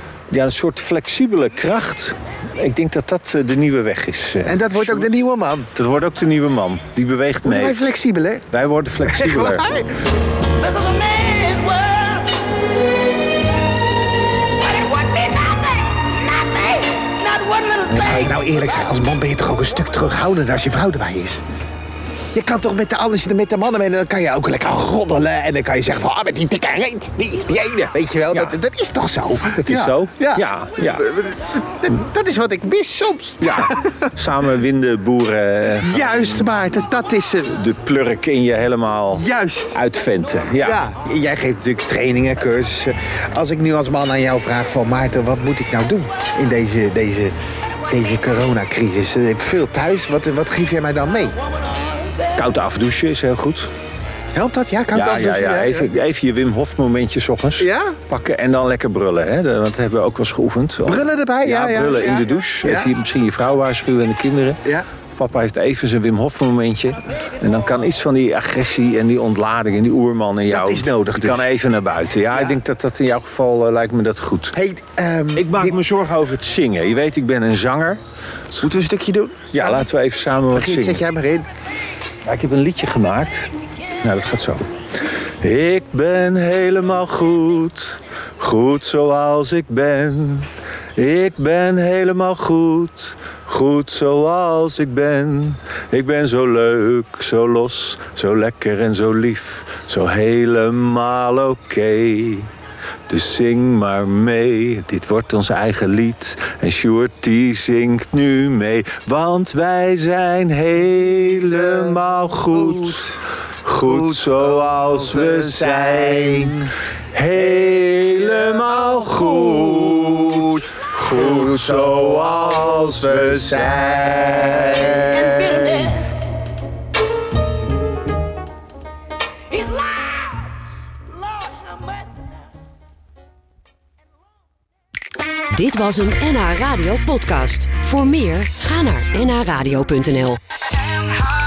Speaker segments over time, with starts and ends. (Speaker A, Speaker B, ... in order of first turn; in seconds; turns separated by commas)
Speaker A: 0.3-5.1, Speaker B: 4.5-5.7, Speaker A: 5.7-7.8, Speaker B: 7.4-8.4, Speaker A: 8.5-9.7, Speaker B: 9.1-9.9, Speaker C: 10.5-12.3, Speaker C: 14.6-18.1, Speaker B: 17.9-21.4, Speaker B: 22.3-34.0, Speaker A: 28.3-28.6, Speaker A: 29.4-31.1, Speaker A: 33.4-36.6, Speaker B: 35.8-37.6, Speaker A: 37.4-40.9, Speaker B: 39.2-39.7, Speaker B: 40.6-47.4, Speaker B: 47.9-51.4, Speaker A: 52.3-53.7, Speaker B: 54.3-55.9, Speaker A: 54.9-74.5, Speaker B: 57.6-58.0, Speaker B: 60.9-62.9, Speaker B: 70.5-71.4, Speaker B: 74.5-75.8, Speaker A: 75.3-78.7, Speaker B: 78.6-79.8, Speaker A: 79.5-81.0, Speaker B: 80.5-81.5, Speaker A: 82.2-84.6, Speaker A: 85.4-102.5, Speaker A: 103.1-125.8, Speaker C: 125.4-126.3, Speaker C: 129.5-130.4, Speaker C: 131.4-132.0, Speaker D: 135.5-140.4